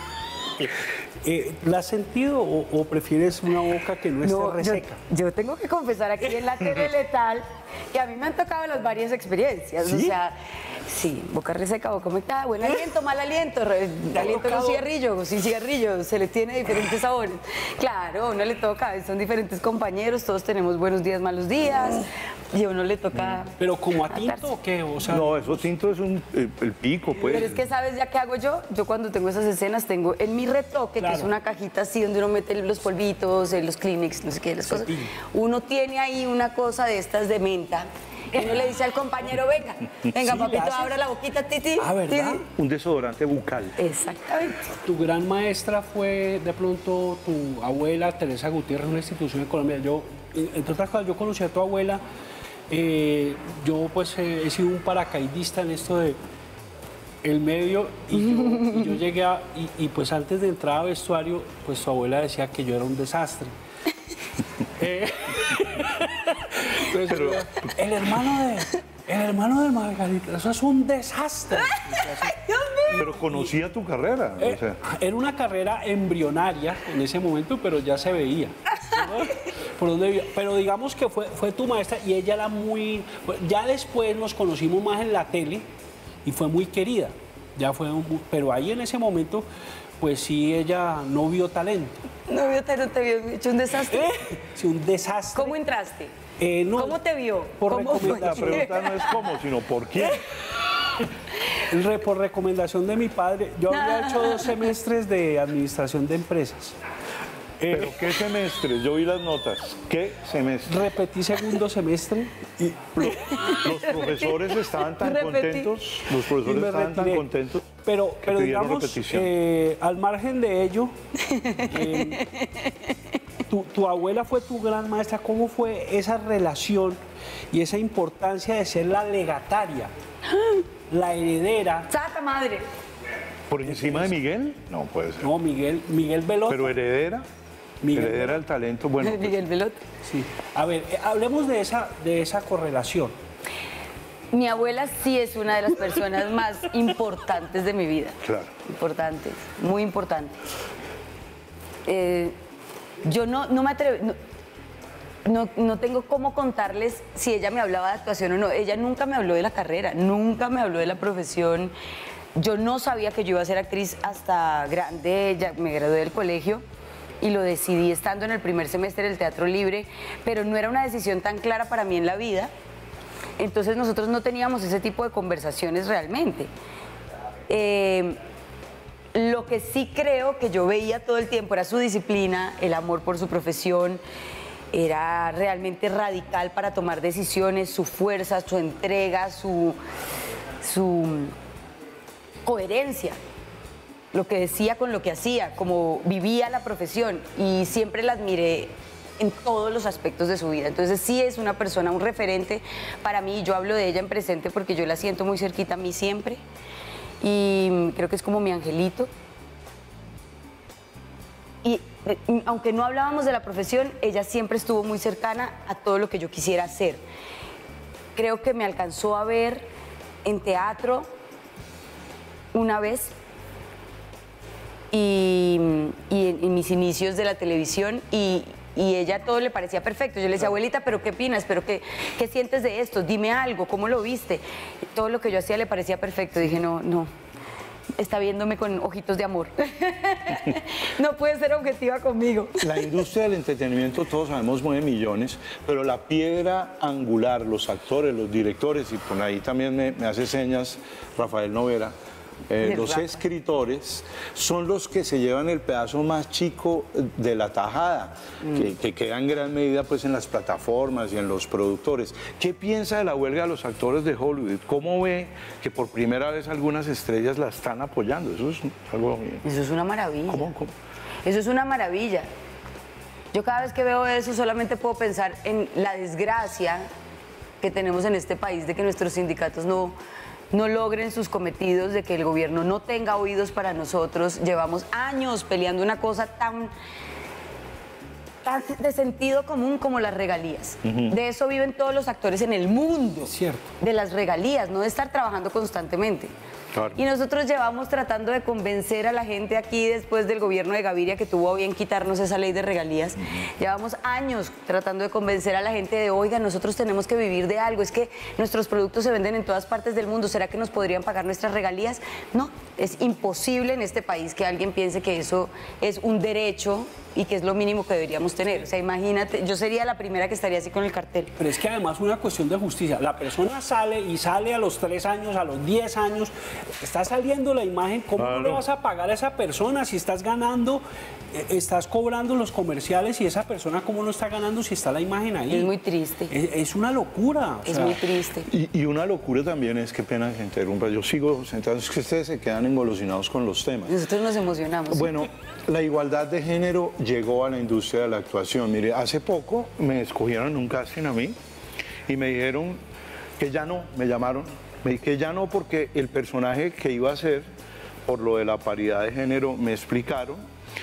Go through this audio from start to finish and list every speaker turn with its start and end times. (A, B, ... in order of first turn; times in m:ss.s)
0:00.6-0:05.0 A
0:04.2-0:24.5 B
0:09.8-0:10.1 A
0:14.1-0:14.8 A
0:23.1-0:23.4 C
0:23.6-0:25.6 A
0:25.0-0:27.6 C
0:27.2-0:42.4 B
0:31.0-0:31.3 A
0:34.6-0:35.1 A
0:40.2-0:41.0 A
0:41.8-0:42.4 A
0:42.5-0:43.8 C
0:43.8-0:44.7 B
0:44.8-0:52.0 A
0:52.7-0:56.2 A
0:57.2-1:03.5 A
0:58.5-0:59.0 B
1:04.6-1:13.5 A
1:07.0-1:07.8 C
1:12.4-1:12.8 B
1:12.9-1:14.8 C
1:14.4-1:25.7 A
1:26.2-1:29.5 A
1:30.0-1:32.0 A
1:32.3-1:34.1 B
1:33.9-1:35.6 A
1:35.4-1:36.1 B
1:36.4-1:37.0 A
1:36.8-1:39.2 B
1:37.6-1:38.7 A
1:37.8-1:40.2 C
1:41.7-1:46.8 A
1:43.8-1:44.6 B
1:47.6-1:48.1 A
1:47.7-1:50.9 C
1:50.7-1:53.0 A
1:53.0-1:57.7 C
1:53.0-1:55.7 B
1:56.4-2:01.0 A
1:58.2-1:59.3 C
2:01.2-2:02.9 B
2:01.6-2:02.2 A
2:03.5-2:07.0 A
2:07.5-2:09.9 A
2:10.3-2:10.7 B
2:10.9-2:11.9 A
2:11.9-2:12.7 B
2:13.5-2:15.3 C
2:13.7-2:14.1 A
2:15.2-2:16.8 A
2:16.5-2:17.3 C
2:17.8-2:18.4 A
2:17.9-2:19.4 C
2:19.0-2:19.9 B
2:20.0-2:23.2 A
2:24.3-2:30.4 B
2:28.2-2:28.5 C
2:31.9-2:32.4 B
2:33.0-2:34.2 B
2:35.2-2:41.7 B
2:42.4-2:46.6 B
2:47.2-2:52.5 B
2:53.4-2:56.5 B
2:57.5-2:58.2 B
2:59.1-3:04.0 B
3:04.7-3:09.8 B
3:10.6-3:11.3 B
3:12.4-3:13.2 B
3:14.1-3:26.4 B
3:27.2-3:29.1 B
3:31.6-3:37.0 B
3:38.2-3:39.7 B
3:40.2-3:41.1 B
3:42.5-3:43.2 B
3:44.9-3:57.1 B
3:58.0-4:02.9 B
4:02.6-4:12.0 C
4:12.5-4:29.4 C
4:12.6-4:13.2 B
4:18.4-4:18.7 B
4:29.4-4:30.5 B
4:30.3-4:30.7 C
4:31.2-4:32.3 B
4:33.3-4:36.9 B
4:37.6-4:40.0 B
4:40.5-4:46.7 B
4:48.4-4:56.3 B
4:50.8-4:51.2 C
4:53.2-4:53.7 A
4:56.7-4:57.0 C
4:57.0-5:21.3 B
5:21.4-5:35.7 A
5:28.2-5:28.6 C
5:35.5-5:36.3 B
5:36.3-5:38.0 A
5:37.6-5:38.5 B
5:38.5-5:44.0 C
5:43.9-5:45.2 B
5:44.9-5:51.4 C
5:52.1-5:52.8 C
5:53.4-5:57.5 C
5:58.1-6:00.4 C